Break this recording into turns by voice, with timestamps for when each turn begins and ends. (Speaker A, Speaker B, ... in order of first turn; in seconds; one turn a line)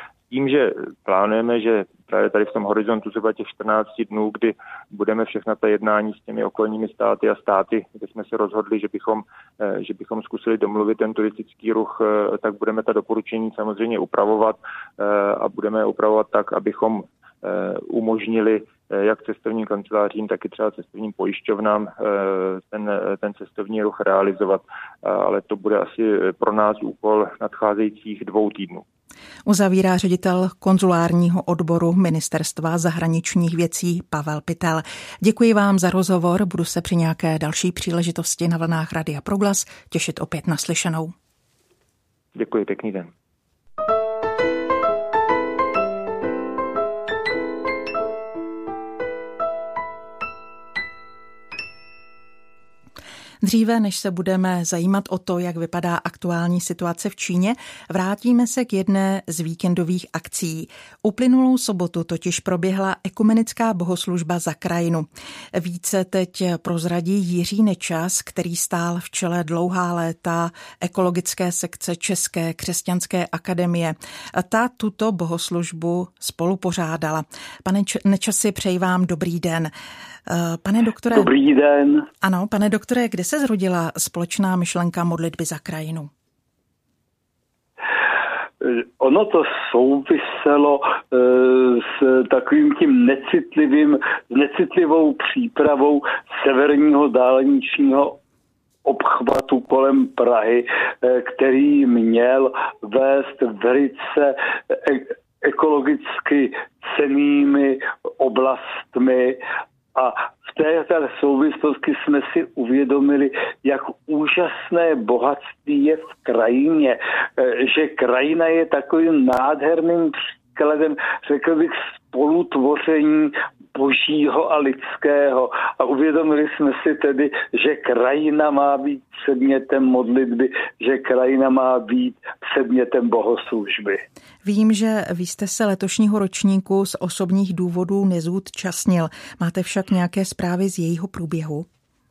Speaker A: 0.3-28.8
Speaker B: 29.4-41.1
Speaker A: 42.3-43.1
Speaker B: 53.4-79.7
Speaker B: 80.2-81.3
Speaker C: 81.1-82.1
Speaker B: 82.2-86.1
Speaker C: 88.6-98.2
Speaker C: 98.8-109.4
Speaker C: 109.9-134.0
Speaker B: 134.4-141.7